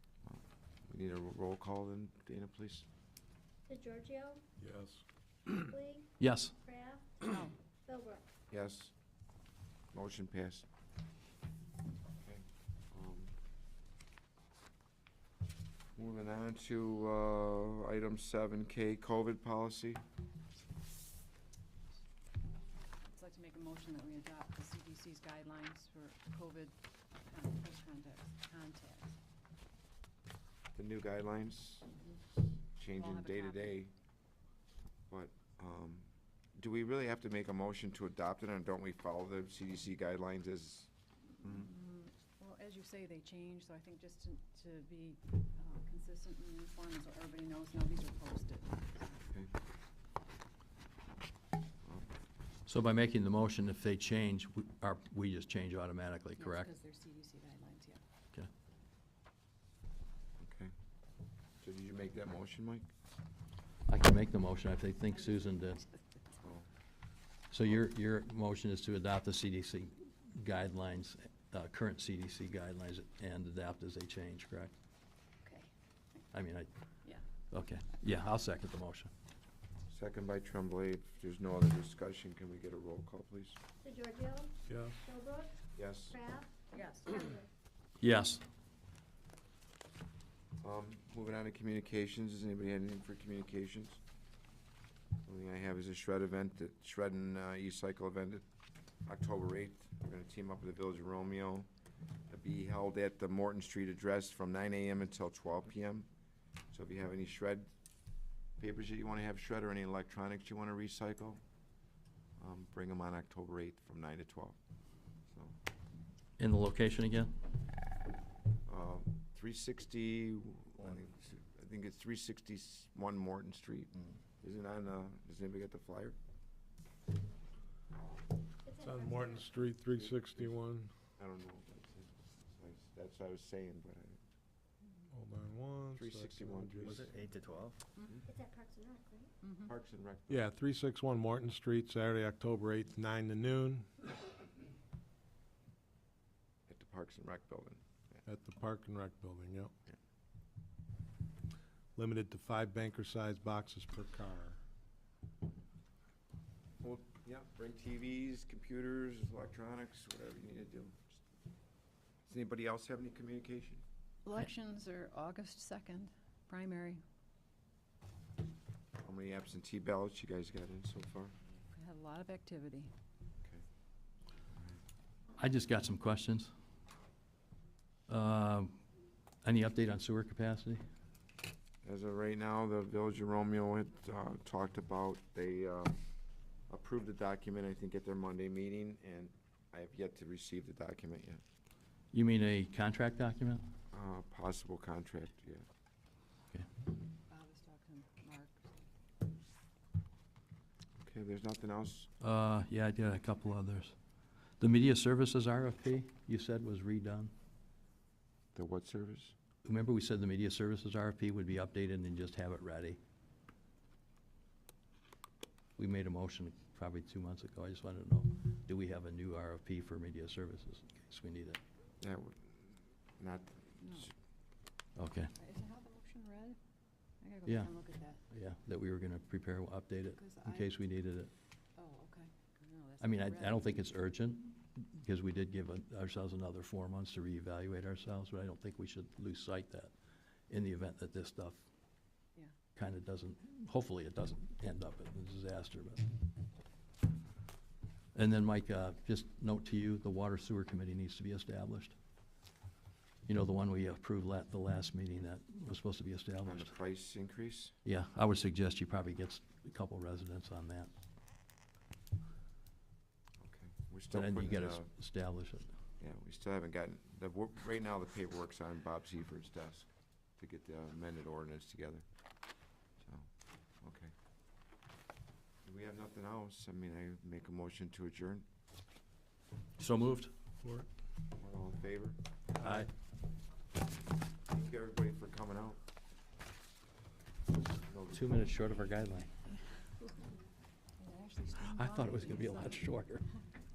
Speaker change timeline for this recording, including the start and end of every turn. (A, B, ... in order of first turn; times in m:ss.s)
0:00.2-0:02.9 A
0:03.7-0:04.4 B
0:04.6-0:05.6 C
0:05.5-0:06.1 B
0:06.2-0:06.5 D
0:06.6-0:07.1 B
0:07.2-0:07.5 E
0:07.9-0:08.2 B
0:08.5-0:08.9 A
0:09.9-0:10.7 A
0:12.2-0:13.3 A
0:16.0-0:20.0 A
0:23.1-0:29.2 E
0:30.7-0:31.9 A
0:32.8-0:33.9 A
0:33.0-0:33.8 E
0:35.1-0:40.9 A
0:41.4-0:41.7 A
0:41.5-0:49.2 E
0:52.7-0:56.7 D
0:56.4-0:58.0 E
1:00.4-1:00.7 A
1:01.6-1:02.9 A
1:03.9-1:05.8 D
1:05.3-1:06.3 E
1:07.5-1:14.7 D
1:15.4-1:16.2 E
1:16.3-1:16.7 D
1:17.5-1:19.1 D
1:19.9-1:23.6 A
1:23.8-1:25.6 B
1:24.7-1:25.0 C
1:25.7-1:26.2 A
1:26.1-1:27.5 B
1:26.7-1:27.1 E
1:28.0-1:28.4 D
1:30.6-1:34.0 A
1:35.2-1:38.4 A
1:39.1-1:41.7 A
1:42.3-1:46.1 A
1:46.7-1:47.7 A
1:48.6-1:51.4 A
1:52.4-1:54.6 A
1:55.3-1:55.6 A
1:56.4-1:57.3 D
1:58.6-2:06.2 A
2:08.7-2:09.5 B
2:08.8-2:10.9 C
2:09.9-2:10.6 A
2:11.2-2:14.2 A
2:15.1-2:17.1 C
2:16.0-2:17.1 A
2:16.8-2:17.8 D
2:18.3-2:19.3 B
2:19.4-2:19.7 E
2:19.6-2:20.4 A
2:20.3-2:23.9 C
2:26.7-2:28.2 A
2:28.2-2:29.7 C
2:32.0-2:34.6 C
2:36.8-2:41.2 A
2:42.3-2:43.8 A
2:44.3-2:47.0 E
2:49.0-2:51.3 A
2:51.7-2:52.9 E
2:54.6-2:54.8 A
2:55.4-2:56.5 D
2:58.1-2:58.7 D
2:59.4-3:00.8 D
3:01.8-3:06.0 A
3:06.7-3:11.4 A
3:12.1-3:13.6 D
3:13.9-3:15.7 A
3:17.3-3:18.8 E
3:21.0-3:22.1 A
3:22.2-3:23.9 D
3:24.6-3:27.3 D
3:28.6-3:29.3 A
3:29.6-3:33.0 D
3:35.8-3:41.6 D
3:42.0-3:44.1 A
3:43.8-3:44.1 E
3:45.0-3:45.3 D
3:45.4-3:46.6 E
3:47.2-3:48.2 E
3:47.5-3:51.3 D
3:50.2-3:50.7 E
3:51.8-3:53.7 E
3:53.0-3:59.9 D
4:00.5-4:01.6 D
4:02.8-4:06.1 D
4:08.2-4:11.9 D
4:13.3-4:16.7 D
4:16.4-4:17.7 A
4:17.8-4:20.9 D
4:23.4-4:24.9 A
4:24.1-4:25.7 D
4:26.0-4:32.0 A
4:33.0-4:33.3 A
4:33.8-4:34.1 A
4:35.6-4:38.4 A
4:39.8-4:40.3 D
4:40.6-4:40.9 C
4:41.4-4:42.2 A
4:42.6-4:42.9 D
4:44.5-4:45.8 A
4:47.8-4:48.2 A
4:48.1-4:49.3 D
4:51.0-4:52.8 E
4:51.6-4:53.2 D